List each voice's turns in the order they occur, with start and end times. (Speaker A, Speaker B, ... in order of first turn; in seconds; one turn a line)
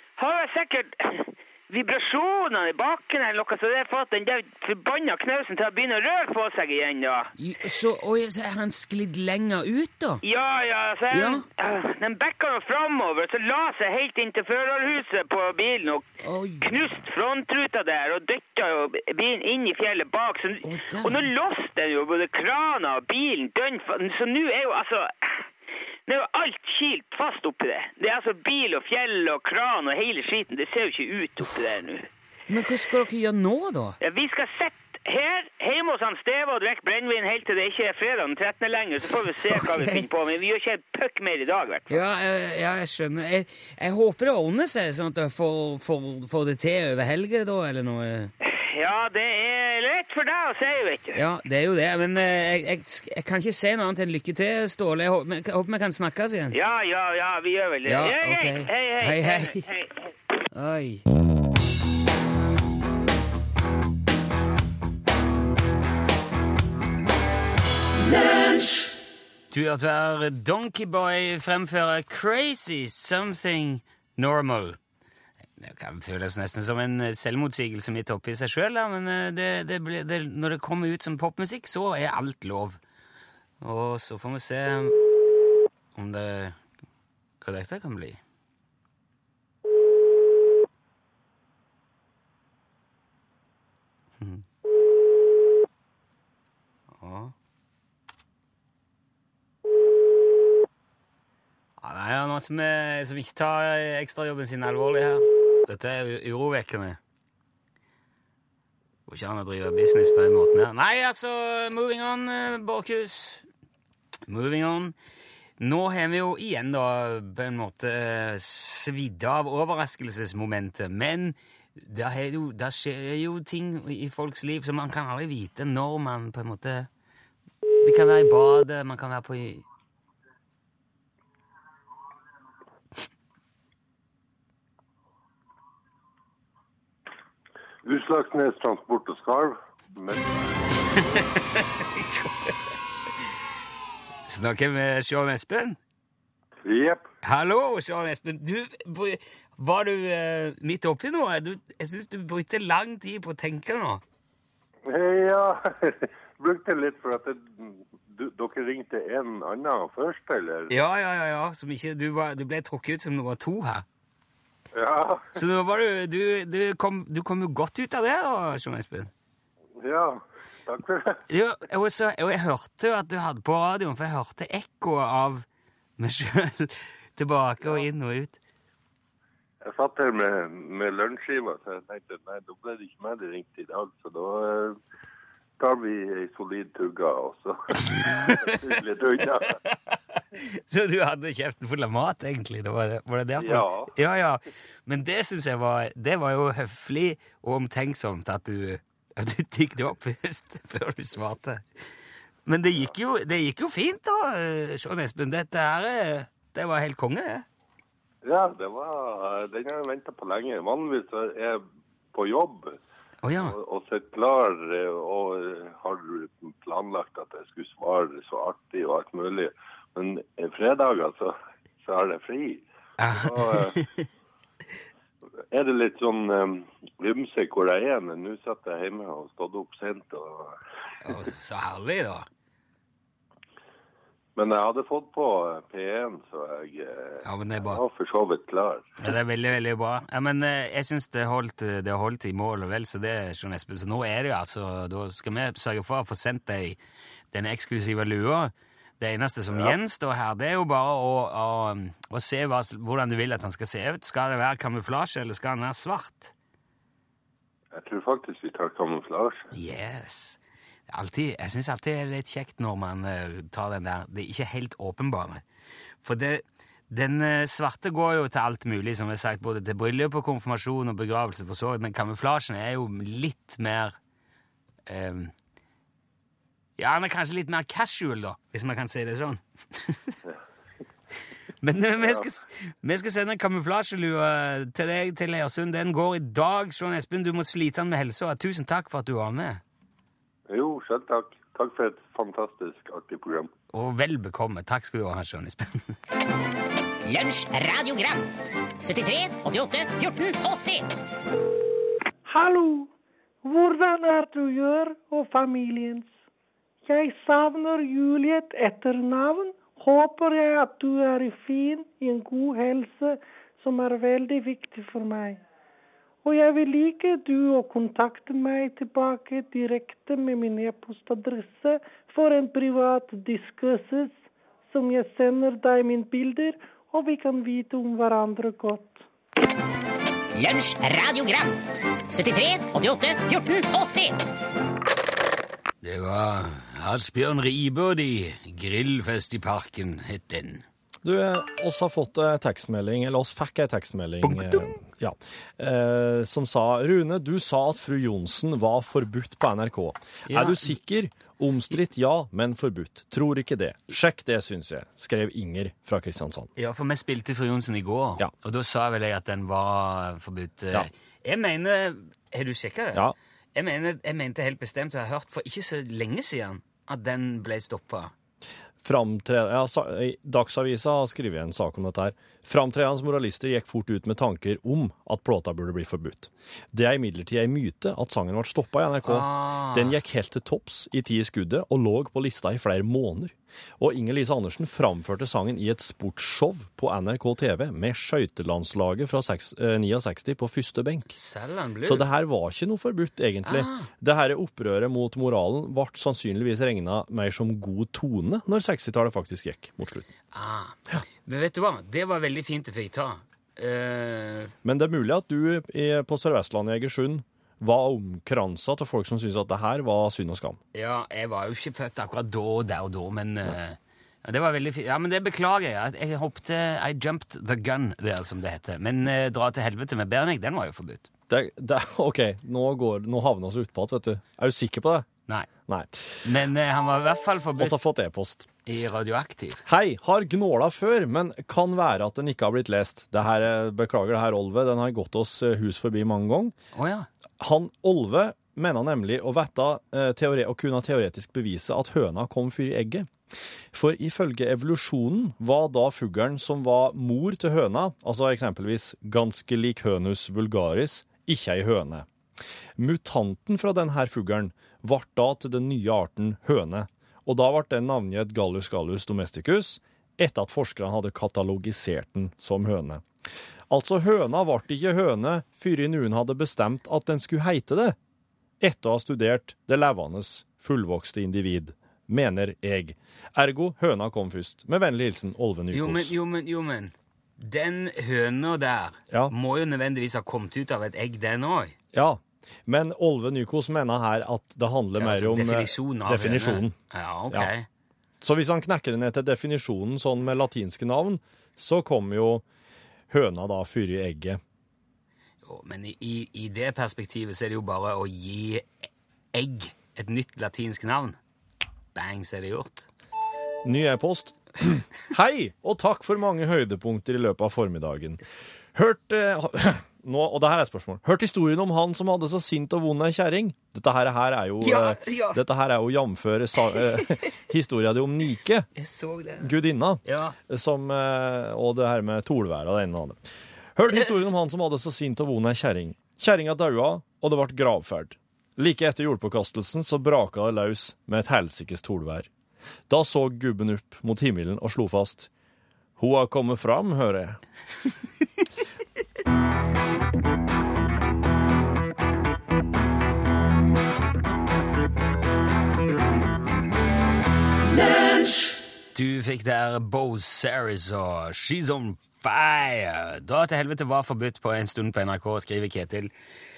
Speaker A: 0.2-7.3
Speaker B: 7.4-10.2
Speaker A: 10.2-16.1
Speaker B: 11.1-11.4
Speaker B: 16.2-16.7
Speaker A: 16.6-25.3
Speaker B: 20.6-21.3
Speaker A: 26.1-32.1
Speaker B: 32.5-34.0
Speaker A: 34.0-42.0
Speaker B: 39.5-40.0
Speaker B: 41.9-48.3
Speaker A: 48.4-51.2
Speaker B: 51.1-56.5
Speaker A: 56.5-59.9
Speaker B: 57.9-59.6
Speaker B: 60.5-61.0
Speaker B: 69.5-74.8
Speaker B: 75.6-82.8
Speaker B: 83.6-85.0
Speaker B: 85.9-86.6
Speaker B: 87.4-88.2
Speaker B: 97.0-97.3
Speaker B: 101.8-107.0
Speaker B: 109.1-113.4
Speaker B: 114.3-115.0
Speaker B: 115.6-126.9
Speaker B: 127.8-129.6
Speaker C: 137.8-141.1
Speaker B: 141.1-142.5
Speaker B: 144.3-145.8
Speaker C: 146.6-147.0
Speaker B: 147.2-154.0
Speaker C: 154.9-160.7
Speaker B: 160.7-163.8
Speaker C: 164.7-165.3
Speaker B: 165.3-169.1
Speaker C: 169.8-171.2
Speaker B: 171.3-175.4
Speaker B: 176.0-178.4
Speaker C: 179.6-184.8
Speaker C: 185.6-189.6
Speaker B: 187.9-188.5
Speaker B: 190.4-201.6
Speaker C: 193.4-193.9
Speaker B: 202.4-207.4
Speaker C: 208.2-211.6
Speaker C: 212.1-212.8
Speaker B: 213.2-213.6
Speaker C: 213.3-223.8
Speaker B: 223.0-224.0
Speaker C: 225.5-230.6
Speaker B: 231.0-232.2
Speaker C: 234.3-238.9
Speaker B: 237.2-237.8
Speaker B: 239.0-246.8
Speaker B: 247.3-256.3
Speaker C: 257.7-259.4
Speaker B: 259.5-265.4
Speaker B: 266.0-273.9
Speaker B: 274.9-275.3
Speaker B: 276.8-280.1
Speaker B: 281.6-289.6
Speaker C: 282.0-282.2
Speaker C: 290.5-293.5
Speaker B: 293.7-295.9
Speaker D: 297.0-298.3
Speaker D: 298.8-300.8
Speaker E: 302.2-302.9
Speaker E: 303.4-306.1
Speaker E: 306.9-315.4
Speaker E: 316.2-329.0
Speaker D: 330.3-331.6
Speaker D: 332.1-334.1
Speaker B: 335.8-340.6
Speaker F: 341.0-356.5
Speaker B: 344.2-344.8
Speaker B: 350.3-350.8
Speaker B: 356.6-368.1
Speaker F: 368.8-391.1
Speaker B: 379.1-380.0
Speaker B: 391.1-392.1
Speaker F: 391.8-400.1
Speaker B: 393.4-393.9
Speaker B: 400.3-404.5
Speaker F: 404.6-410.6
Speaker B: 410.7-421.1
Speaker F: 421.3-425.1
Speaker F: 425.7-426.1
Speaker B: 426.2-427.8
Speaker F: 427.6-428.4
Speaker B: 428.6-429.6
Speaker F: 429.6-436.5
Speaker B: 436.7-437.1
Speaker F: 437.4-443.1
Speaker F: 443.7-452.1
Speaker F: 452.8-463.0
Speaker F: 463.7-467.9
Speaker F: 468.6-476.1
Speaker B: 475.7-481.7
Speaker F: 481.9-486.8
Speaker B: 485.0-487.7
Speaker F: 488.2-492.4
Speaker F: 493.1-494.4
Speaker B: 495.4-498.7
Speaker B: 499.3-501.2
Speaker B: 501.9-502.8
Speaker F: 503.6-508.2
Speaker F: 508.7-518.7
Speaker B: 514.6-515.4
Speaker B: 518.8-519.5
Speaker F: 519.4-523.2
Speaker B: 520.0-520.4
Speaker F: 523.8-532.3
Speaker F: 532.9-535.3
Speaker F: 536.0-537.4
Speaker B: 548.9-556.1